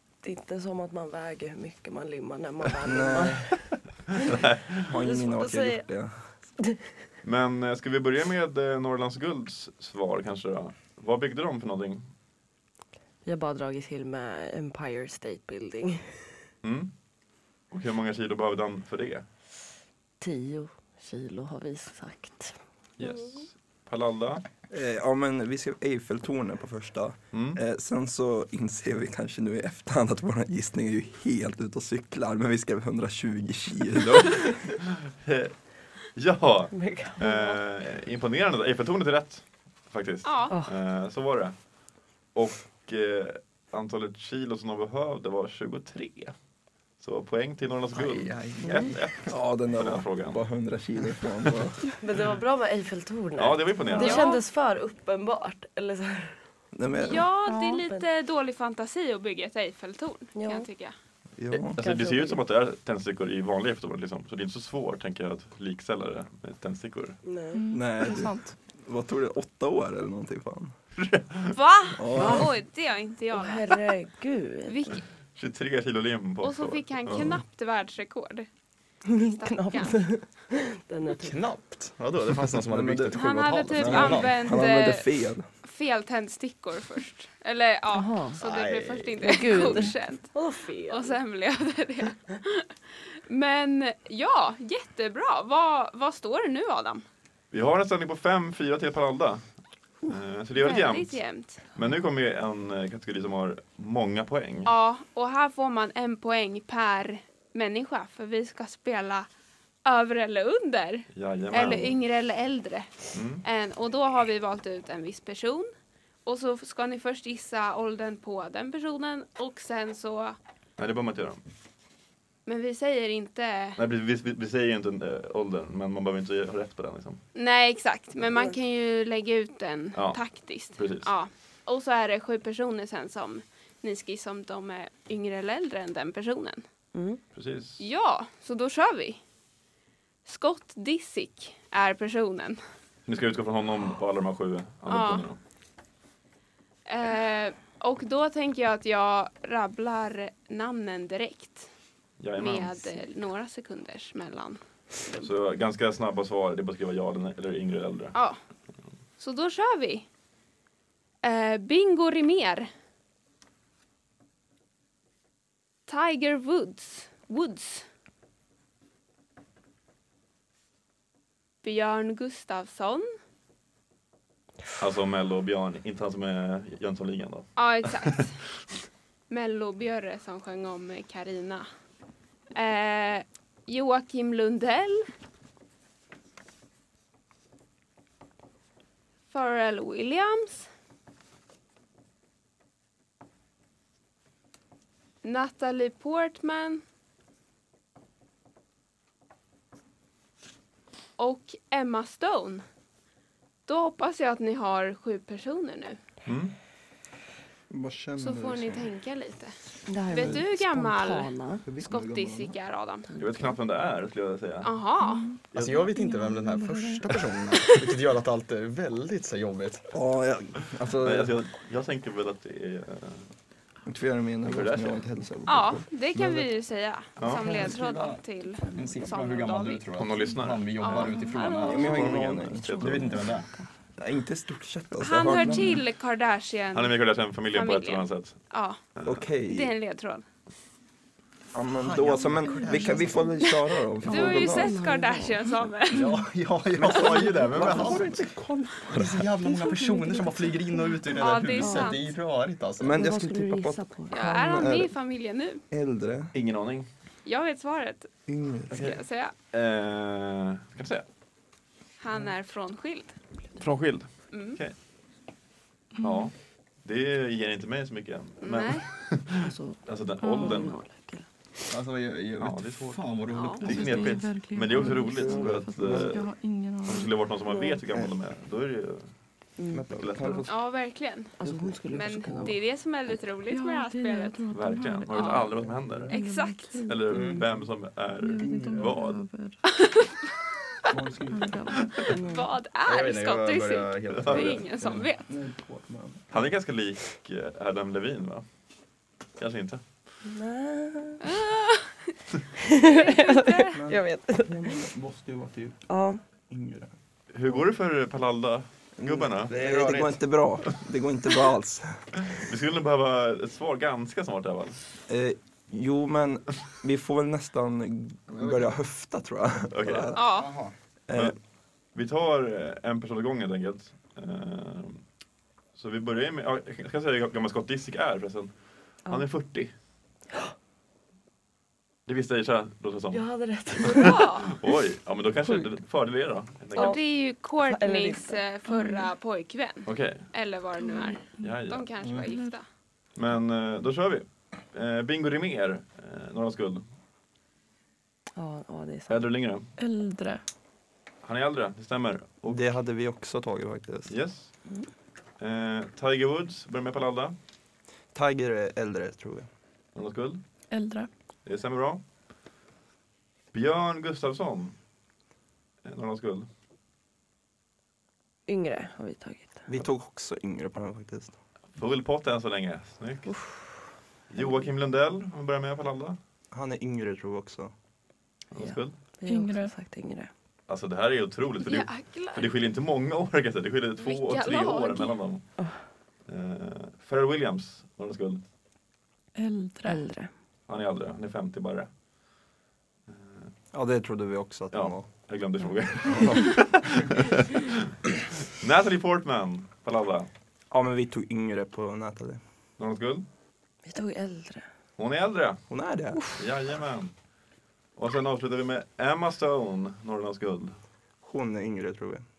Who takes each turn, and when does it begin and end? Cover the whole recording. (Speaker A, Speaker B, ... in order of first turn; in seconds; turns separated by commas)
Speaker A: 0.2-4.3, Speaker B: 2.8-3.6, Speaker C: 4.1-4.8, Speaker B: 4.8-6.3, Speaker A: 5.0-5.9, Speaker C: 7.2-12.1, Speaker A: 13.2-16.2, Speaker C: 16.6-16.9, Speaker C: 17.7-19.2, Speaker A: 20.2-22.6, Speaker C: 23.0-24.4, Speaker B: 24.7-34.5, Speaker C: 27.3-27.6, Speaker C: 34.0-35.5, Speaker C: 36.1-41.5, Speaker A: 36.7-37.6, Speaker D: 40.2-40.6, Speaker C: 42.4-46.4, Speaker C: 47.0-50.4, Speaker E: 47.9-49.3, Speaker A: 48.7-48.9, Speaker B: 49.3-51.8, Speaker A: 52.0-56.4, Speaker C: 53.4-54.3, Speaker F: 53.9-54.2, Speaker D: 54.0-54.4, Speaker B: 56.7-57.3, Speaker D: 57.0-60.9, Speaker F: 57.5-57.8, Speaker A: 57.5-58.0, Speaker A: 60.4-60.7, Speaker B: 61.4-61.8, Speaker A: 61.5-62.4, Speaker C: 61.7-67.2, Speaker A: 67.2-67.6, Speaker F: 67.5-68.5, Speaker B: 67.7-70.8, Speaker C: 71.0-71.6, Speaker D: 71.5-73.9, Speaker B: 72.0-72.5, Speaker A: 72.1-72.5, Speaker A: 73.3-75.0, Speaker D: 74.7-75.0, Speaker C: 75.4-77.4, Speaker D: 76.4-78.5, Speaker A: 79.1-81.4, Speaker D: 79.3-80.0, Speaker E: 81.2-84.4, Speaker B: 82.7-83.2, Speaker D: 83.1-85.1, Speaker B: 83.7-85.5, Speaker D: 85.6-90.3, Speaker A: 87.9-88.4, Speaker E: 88.4-89.9, Speaker A: 89.2-91.2, Speaker D: 90.9-92.7, Speaker D: 93.3-97.0, Speaker C: 97.5-99.5, Speaker C: 100.0-104.7, Speaker D: 100.5-101.6, Speaker D: 104.6-109.3, Speaker D: 109.8-115.7, Speaker C: 111.1-112.0, Speaker C: 113.1-113.4, Speaker D: 116.2-120.4, Speaker C: 120.8-121.4, Speaker D: 122.5-123.8, Speaker C: 123.8-127.2, Speaker D: 127.3-136.6, Speaker C: 129.9-130.2, Speaker C: 130.8-131.1, Speaker A: 136.9-137.2, Speaker C: 137.3-137.8, Speaker D: 137.8-139.2, Speaker D: 140.2-142.6, Speaker C: 143.1-145.4, Speaker D: 144.9-145.3, Speaker D: 146.9-151.7, Speaker C: 152.2-152.8, Speaker D: 152.3-155.3, Speaker C: 155.2-158.2, Speaker D: 158.1-158.4, Speaker D: 159.2-160.1, Speaker D: 161.2-162.7, Speaker D: 165.9-167.8, Speaker D: 171.6-173.1, Speaker C: 174.8-178.3, Speaker D: 177.6-178.3, Speaker D: 179.3-181.7, Speaker D: 182.5-185.1, Speaker D: 189.3-190.7, Speaker D: 195.2-196.8, Speaker D: 201.2-202.6, Speaker D: 203.7-206.0, Speaker C: 206.2-206.5, Speaker B: 207.7-208.9, Speaker D: 208.2-209.5, Speaker A: 209.9-211.6, Speaker D: 210.1-213.1, Speaker B: 210.2-210.4, Speaker B: 211.7-212.6, Speaker A: 213.1-213.6, Speaker C: 213.2-214.7, Speaker D: 214.6-215.3, Speaker F: 215.0-217.2, Speaker C: 215.5-215.9, Speaker E: 215.5-219.8, Speaker B: 219.9-221.4, Speaker C: 220.9-223.3, Speaker B: 223.8-226.5, Speaker C: 224.5-225.0, Speaker D: 225.5-229.8, Speaker C: 227.2-227.5, Speaker E: 227.3-232.2, Speaker C: 229.9-233.4, Speaker D: 230.8-232.0, Speaker B: 231.6-233.1, Speaker E: 232.8-233.5, Speaker B: 234.0-235.8, Speaker D: 235.0-237.0, Speaker C: 236.7-238.4, Speaker D: 237.5-238.8, Speaker C: 239.0-239.2, Speaker B: 239.0-239.7, Speaker D: 239.4-240.2, Speaker B: 241.5-244.8, Speaker E: 241.8-243.4, Speaker D: 244.0-246.1, Speaker A: 244.1-245.6, Speaker E: 245.9-248.2, Speaker B: 246.7-249.2, Speaker A: 247.6-247.9, Speaker E: 248.9-253.0, Speaker A: 249.4-252.0, Speaker D: 251.1-252.1, Speaker B: 252.8-254.9, Speaker A: 252.9-254.3, Speaker D: 254.1-255.6, Speaker B: 255.7-256.3, Speaker C: 256.3-256.9, Speaker D: 257.2-258.1, Speaker B: 258.3-258.8, Speaker D: 258.7-259.3, Speaker C: 258.7-259.0, Speaker C: 259.5-261.0, Speaker D: 262.0-263.1, Speaker C: 263.6-264.8, Speaker D: 264.3-264.6, Speaker F: 266.0-266.3, Speaker C: 266.0-266.3, Speaker C: 266.8-270.8, Speaker D: 268.4-268.9, Speaker A: 269.4-271.3, Speaker F: 270.2-270.7, Speaker E: 271.7-274.1, Speaker C: 272.4-273.0, Speaker D: 273.3-273.7, Speaker F: 273.6-277.1, Speaker C: 273.6-276.3, Speaker B: 273.8-274.1, Speaker B: 274.8-276.2, Speaker C: 276.8-279.1, Speaker A: 277.5-277.8, Speaker A: 279.6-279.9, Speaker B: 279.7-280.5, Speaker C: 279.9-280.4, Speaker D: 280.5-281.3, Speaker A: 281.4-282.6, Speaker B: 281.4-282.5, Speaker D: 281.9-284.4, Speaker F: 283.5-287.0, Speaker C: 284.5-286.1, Speaker D: 285.1-285.5, Speaker B: 285.6-286.1, Speaker D: 286.1-286.8, Speaker C: 286.9-289.2, Speaker E: 287.1-287.4, Speaker F: 288.2-289.6, Speaker B: 288.4-289.0, Speaker D: 289.6-290.2, Speaker B: 290.9-291.6, Speaker F: 291.3-292.0, Speaker C: 291.7-292.1, Speaker A: 292.0-292.5, Speaker D: 292.2-295.3, Speaker E: 292.8-295.1, Speaker C: 294.1-294.6, Speaker B: 295.3-296.5, Speaker C: 296.3-298.4, Speaker C: 299.4-299.8, Speaker A: 300.2-301.2, Speaker D: 301.2-302.1, Speaker A: 302.7-304.8, Speaker D: 302.8-303.8, Speaker B: 303.7-305.8, Speaker A: 305.9-306.2, Speaker B: 306.5-306.9, Speaker C: 307.3-309.5, Speaker B: 309.0-312.2, Speaker E: 309.5-310.2, Speaker C: 312.2-314.8, Speaker B: 315.1-320.2, Speaker E: 318.3-318.7, Speaker C: 319.7-320.1, Speaker D: 320.1-320.5, Speaker E: 320.2-320.7, Speaker B: 321.1-321.4, Speaker C: 321.9-325.0, Speaker C: 325.8-328.5, Speaker C: 329.1-329.7, Speaker C: 332.1-333.2, Speaker A: 333.1-334.2, Speaker C: 333.8-337.0, Speaker D: 334.0-334.6, Speaker A: 335.4-335.7, Speaker D: 336.7-342.6, Speaker A: 336.8-337.0, Speaker A: 337.6-338.4, Speaker F: 338.7-339.1, Speaker C: 339.9-340.3, Speaker F: 340.8-341.5, Speaker C: 341.4-341.9, Speaker E: 342.0-342.3, Speaker F: 342.2-342.6, Speaker C: 343.2-346.8, Speaker A: 348.4-349.3, Speaker C: 349.1-349.7, Speaker F: 349.8-350.4, Speaker C: 351.2-352.7, Speaker B: 352.4-354.1, Speaker C: 354.1-354.5, Speaker C: 355.4-357.3, Speaker B: 358.1-359.5, Speaker C: 359.9-360.4, Speaker F: 360.7-361.1, Speaker C: 361.5-362.0, Speaker C: 363.5-364.8, Speaker C: 365.8-366.5, Speaker A: 368.5-369.7, Speaker B: 369.7-371.4, Speaker C: 371.8-373.3, Speaker A: 373.2-373.8, Speaker C: 374.3-376.2, Speaker B: 376.5-377.7, Speaker C: 378.5-378.9, Speaker A: 378.5-380.3, Speaker F: 379.2-379.7, Speaker C: 380.7-385.4, Speaker D: 381.6-382.5, Speaker D: 384.0-385.2, Speaker C: 386.3-388.4, Speaker F: 389.4-390.0, Speaker A: 389.8-390.3, Speaker C: 390.7-391.9, Speaker C: 393.1-393.5, Speaker B: 393.7-395.1, Speaker C: 394.7-397.9, Speaker B: 396.1-396.5, Speaker C: 398.4-400.3, Speaker B: 400.7-402.4, Speaker C: 402.8-403.2, Speaker A: 403.9-404.7, Speaker C: 405.0-405.6, Speaker B: 405.7-406.2, Speaker C: 406.3-407.1, Speaker C: 408.0-410.8, Speaker B: 411.2-412.2